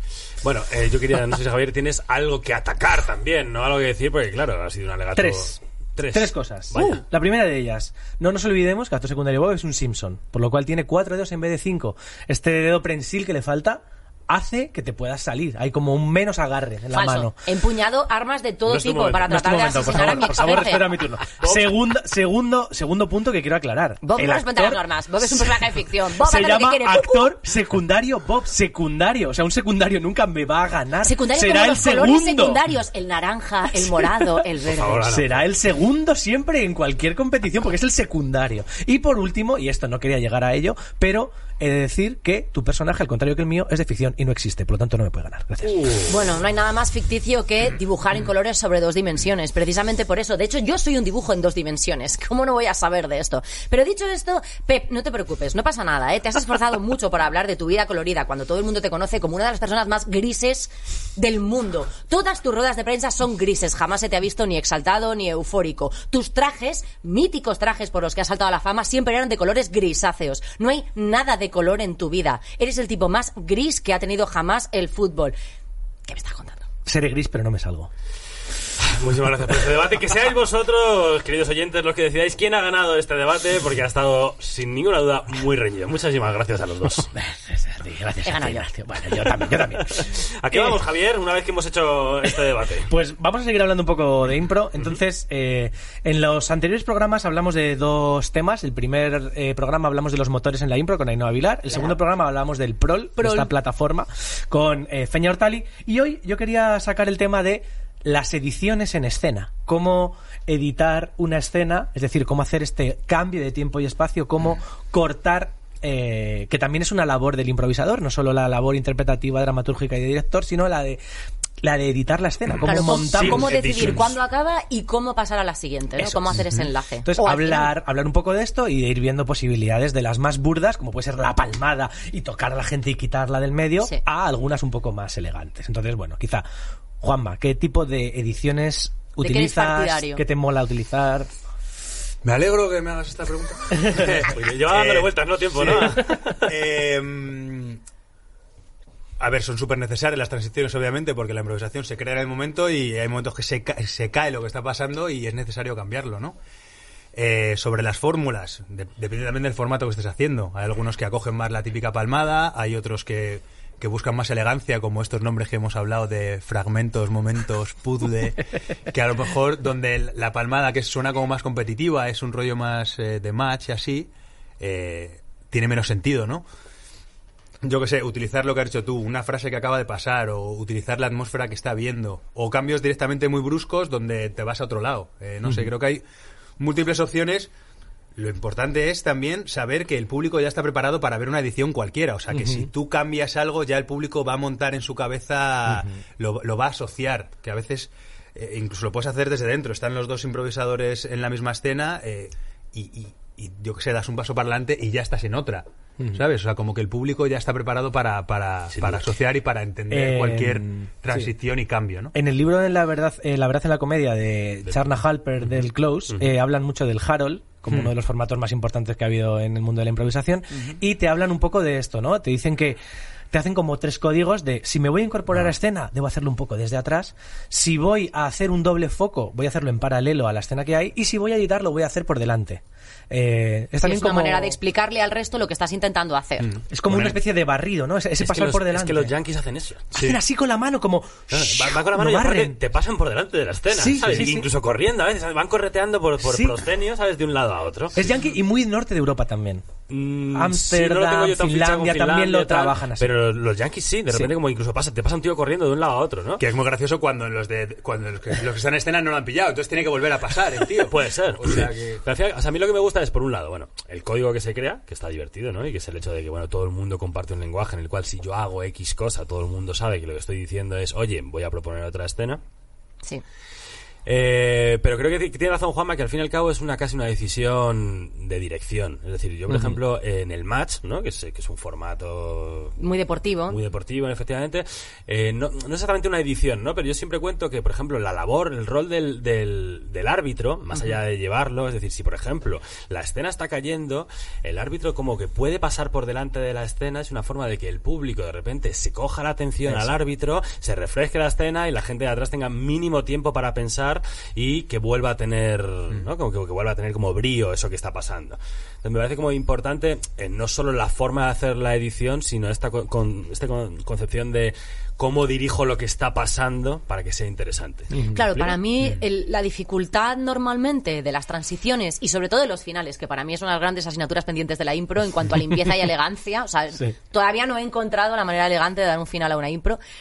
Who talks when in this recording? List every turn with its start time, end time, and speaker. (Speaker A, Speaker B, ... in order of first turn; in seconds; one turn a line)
Speaker A: 0.4-7.0
Speaker B: 5.2-17.4
Speaker C: 16.9-20.9
Speaker A: 18.7-19.2
Speaker B: 18.7-24.8
Speaker A: 21.4-21.7
Speaker C: 24.0-27.3
Speaker B: 26.2-32.6
Speaker C: 31.0-35.1
Speaker B: 34.0-34.3
Speaker A: 34.6-35.5
Speaker B: 35.1-45.9
Speaker A: 45.7-46.1
Speaker C: 46.1-75.3
Speaker C: 76.1-76.6
Speaker B: 76.8-77.9
Speaker A: 78.8-87.1
Speaker B: 87.2-90.8
Speaker C: 88.2-88.7
Speaker A: 89.9-92.9
Speaker B: 92.9-121.0
Speaker B: 121.6-123.5
Speaker C: 122.6-127.7
Speaker A: 123.2-124.1
Speaker D: 123.4-124.0
Speaker B: 126.0-126.4
Speaker B: 127.0-136.4
Speaker B: 137.0-141.3
Speaker C: 139.2-140.2
Speaker D: 142.2-147.8
Speaker A: 144.0-146.5
Speaker D: 149.2-156.4
Speaker D: 157.1-176.4
Speaker D: 177.6-186.0
Speaker D: 186.6-187.5
Speaker D: 188.2-212.1
Speaker B: 192.3-192.7
Speaker A: 208.8-209.0
Speaker B: 209.9-211.3
Speaker B: 212.1-222.8
Speaker B: 223.3-234.6
Speaker C: 233.8-236.6
Speaker B: 236.7-239.1
Speaker A: 236.9-237.2
Speaker A: 238.2-239.8
Speaker D: 239.9-240.2
Speaker B: 239.9-242.6
Speaker A: 241.3-248.1
Speaker B: 243.7-244.5
Speaker B: 246.2-246.6
Speaker B: 247.9-249.7
Speaker A: 249.9-256.4
Speaker B: 250.3-253.1
Speaker D: 256.4-262.0
Speaker A: 260.8-272.4
Speaker A: 274.1-282.8
Speaker B: 279.5-279.8
Speaker C: 282.8-283.6
Speaker A: 283.5-318.6
Speaker C: 290.7-291.0
Speaker B: 317.9-318.2
Speaker C: 318.1-329.8